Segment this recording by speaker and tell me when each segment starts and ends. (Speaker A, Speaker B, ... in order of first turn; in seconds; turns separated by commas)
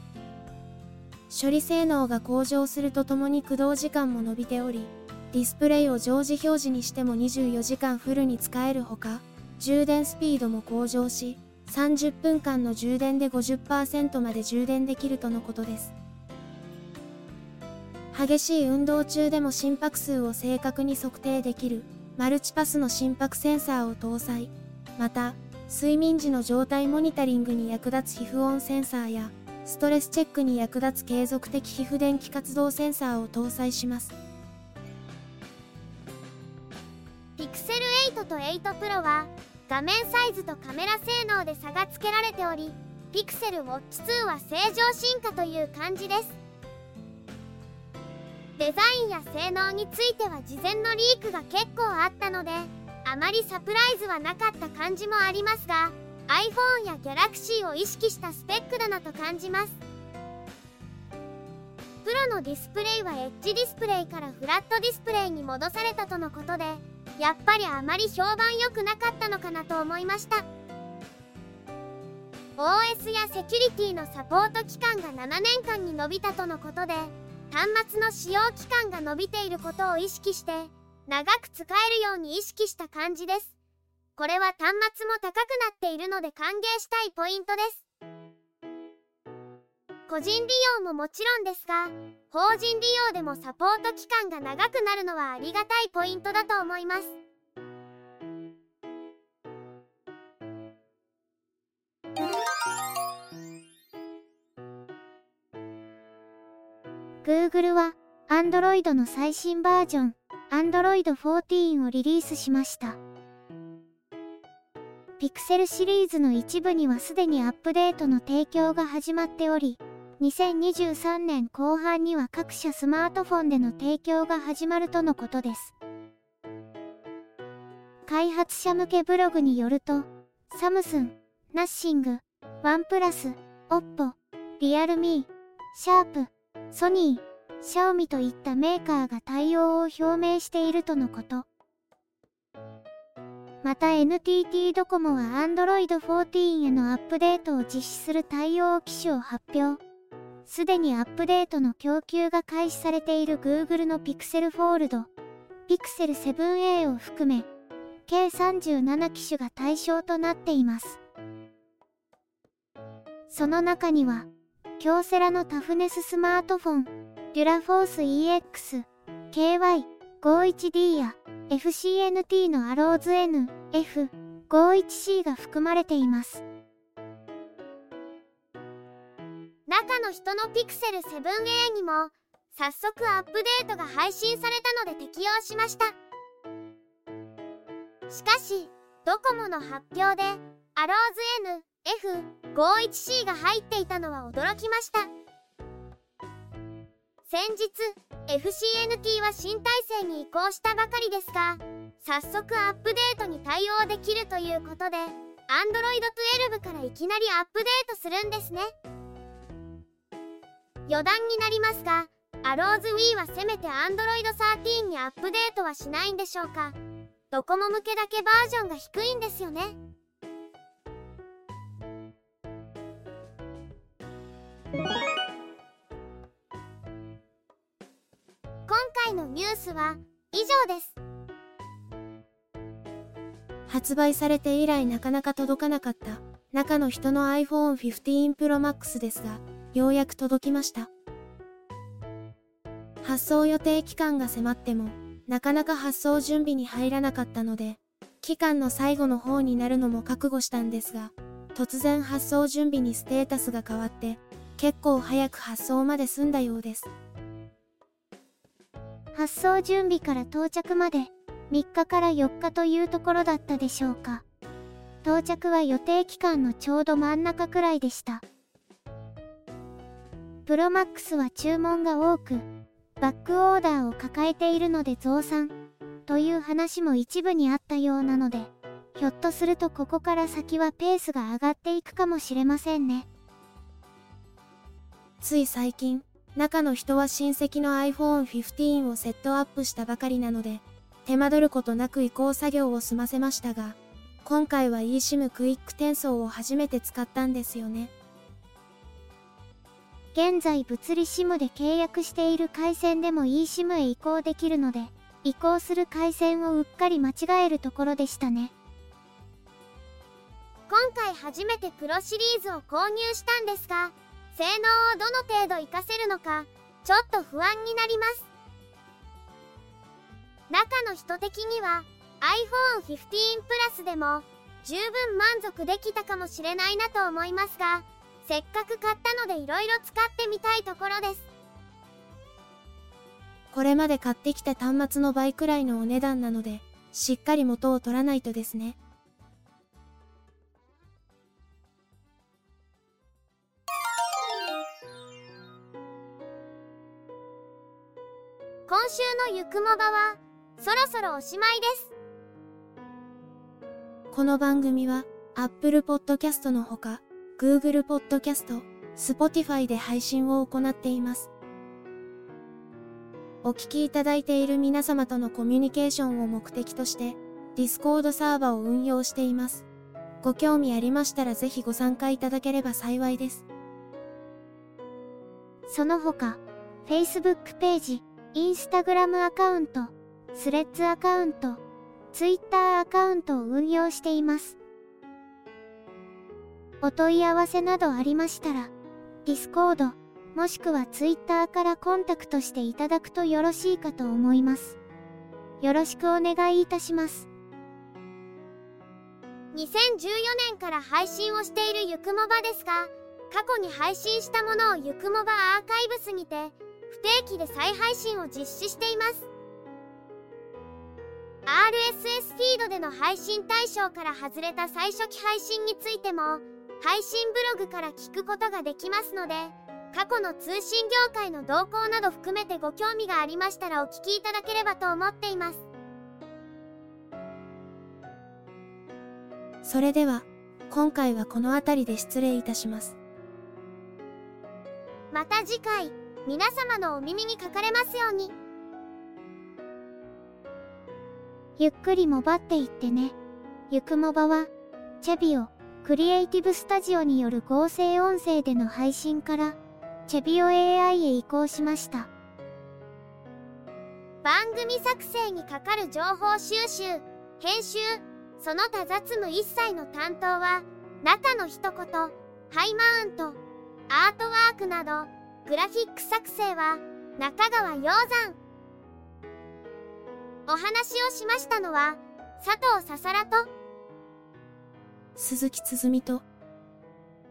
Speaker A: 1.3-15.9, Speaker A: 18.1-34.2, Speaker B: 37.4-46.4, Speaker B: 48.6-59.8, Speaker B: 62.0-70.5, Speaker B: 72.6-83.5, Speaker B: 84.2-87.8, Speaker B: 90.1-97.2, Speaker C: 107.2-113.0, Speaker C: 115.2-125.7, Speaker C: 128.1-141.5, Speaker C: 143.6-149.8, Speaker C: 150.5-155.1, Speaker C: 155.7-157.5, Speaker C: 158.1-161.0, Speaker C: 163.3-164.3, Speaker C: 164.8-176.4, Speaker B: 179.7-186.0, Speaker B: 188.1-195.1, Speaker B: 197.3-208.7, Speaker B: 210.9-216.8, Speaker B: 217.3-219.8, Speaker B: 228.7-231.0, Speaker A: 233.7-240.9, Speaker A: 243.0-256.9, Speaker C: 259.1-264.2, Speaker C: 265.0-268.2, Speaker C: 270.5-272.5, Speaker C: 273.0-275.5, Speaker C: 276.1-283.1, Speaker A: 285.2-297.9, Speaker C: 300.1-308.5, Speaker B: 310.7-318.3, Speaker B: 320.5-331.3, Speaker A: 333.5-338.8, Speaker B: 348.7-351.9, Speaker A: 354.1-361.3, Speaker A: 363.4-369.7, Speaker A: 370.2-373.4, Speaker C: 375.7-381.6, Speaker C: 382.1-384.6, Speaker C: 386.8-388.7, Speaker C: 389.2-394.8, Speaker C: 395.6-397.3, Speaker B: 399.5-409.3, Speaker B: 411.5-425.7, Speaker A: 429.6-433.0, Speaker B: 435.1-438.3, Speaker C: 441.6-443.1, Speaker C: 443.7-444.5, Speaker C: 445.0-452.1, Speaker B: 454.2-463.4, Speaker B: 463.9-468.4, Speaker B: 470.5-473.5, Speaker A: 475.2-476.2